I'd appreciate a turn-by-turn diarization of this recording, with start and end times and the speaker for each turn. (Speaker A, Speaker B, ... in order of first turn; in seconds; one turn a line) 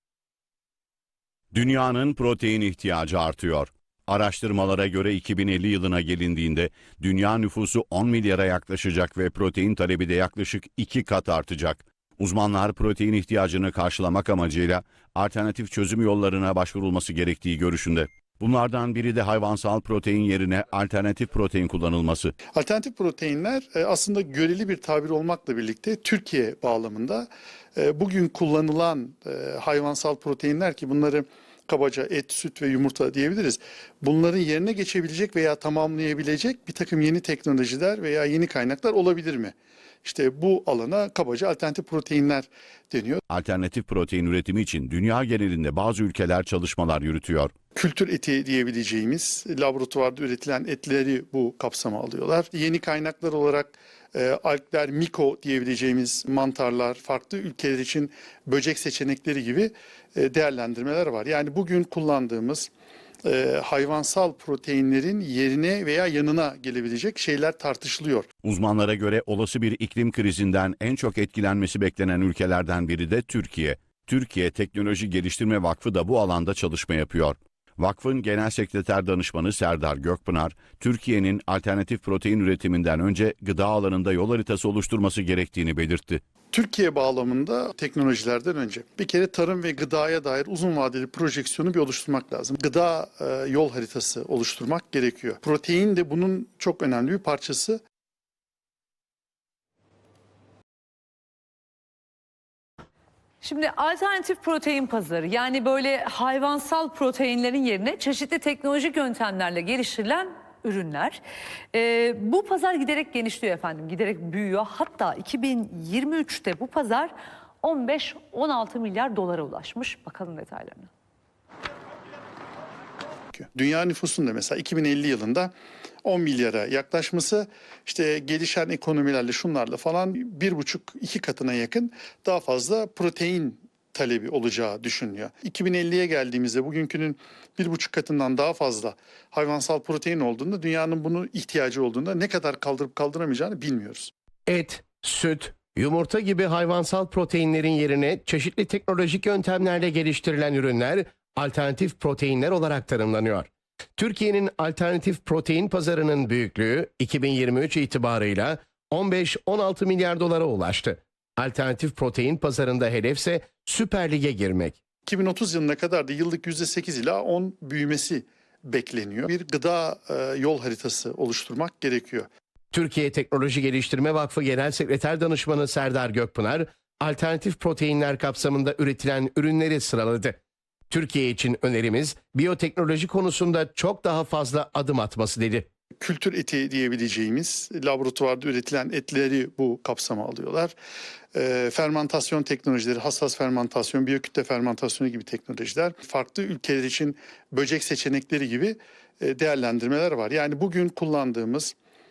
Speaker A: 1.5-22.3
Speaker B: 22.5-43.2
Speaker A: 43.3-47.5
Speaker B: 47.8-62.7
Speaker B: 63.2-68.3
Speaker A: 68.4-86.2
Speaker B: 86.5-97.8
Speaker C: 103.4-111.2
Speaker C: 111.7-117.1
Speaker C: 117.6-120.9
Speaker B: 123.3-125.5
Speaker B: 126.0-144.1
Speaker D: 144.5-164.8
Speaker B: 165.1-172.3
Speaker D: 172.7-180.4
Speaker D: 180.9-185.7
Speaker B: 186.0-190.7
Speaker B: 191.3-201.7